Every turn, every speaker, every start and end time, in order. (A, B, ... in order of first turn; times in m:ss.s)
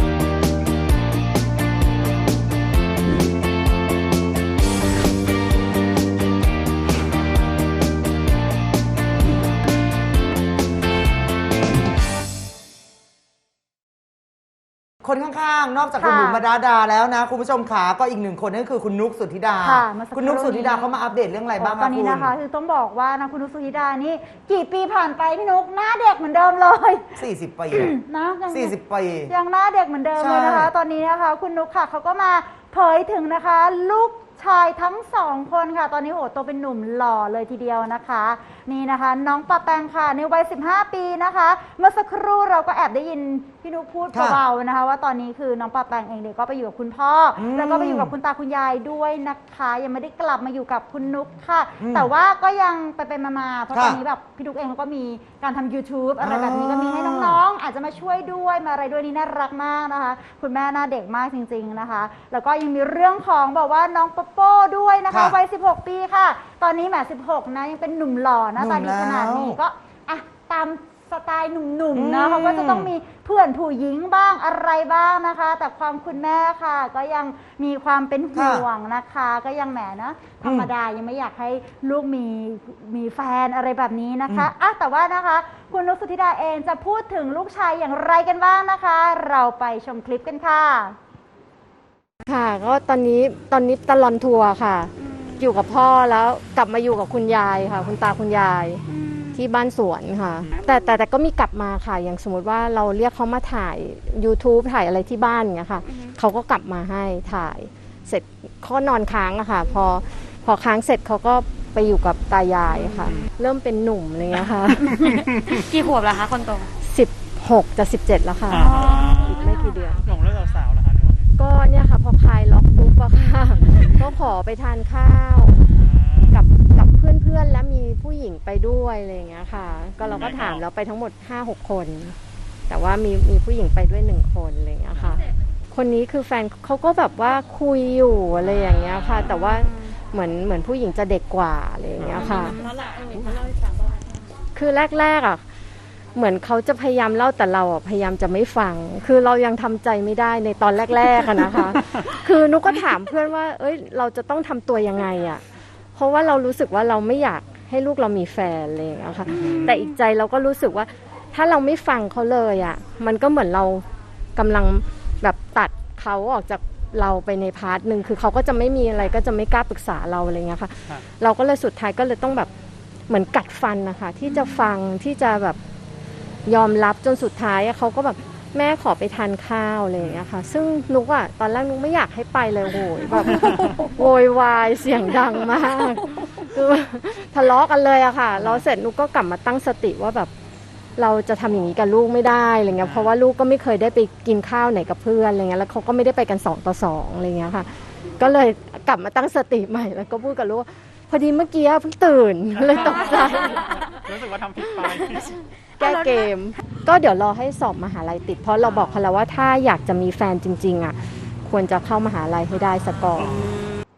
0:15.0-0:22.3 A
0:16.0-0:16.4 B
0:19.6-0:20.9 B
0:21.6-0:27.1 B
0:27.2-0:27.9 A
0:27.7-0:28.7 B
0:28.5-0:29.3 A
0:29.3-1:31.0 B
0:30.2-0:30.7 A
0:44.1-0:44.4 A
0:47.4-0:48.1 A
0:51.8-0:52.1 A
0:53.7-0:54.0 A
0:56.2-0:57.4 A
1:05.1-1:05.4 A
1:08.6-1:09.6 A
1:11.9-1:12.9 A
1:18.3-1:18.6 A
1:20.4-1:20.7 A
1:32.2-1:38.8 C
1:38.9-1:39.4 D
1:39.3-1:55.3 C
1:55.0-1:56.7 D
1:55.0-1:55.5 E
1:56.8-2:00.0 C
1:58.5-1:59.4 E
1:58.5-1:59.7 B
2:00.0-2:01.3 E
2:01.4-2:05.7 C
2:05.7-2:06.3 E
2:06.3-2:12.1 C
2:10.0-2:10.6 E
2:12.7-2:15.2 C
2:15.7-2:22.6 C
2:18.9-2:19.4 E
2:22.1-2:24.1 D
2:24.5-2:25.4 C
2:26.1-2:35.4 C
2:35.9-2:43.8 C
2:39.3-2:39.7 E
2:44.4-2:52.5 C
2:53.1-2:55.6 C
2:56.5-3:10.3 C
3:11.0-3:17.7 C
3:18.2-3:23.8 C
3:22.9-3:25.4 E
3:25.8-3:33.5 C
3:33.2-3:33.6 E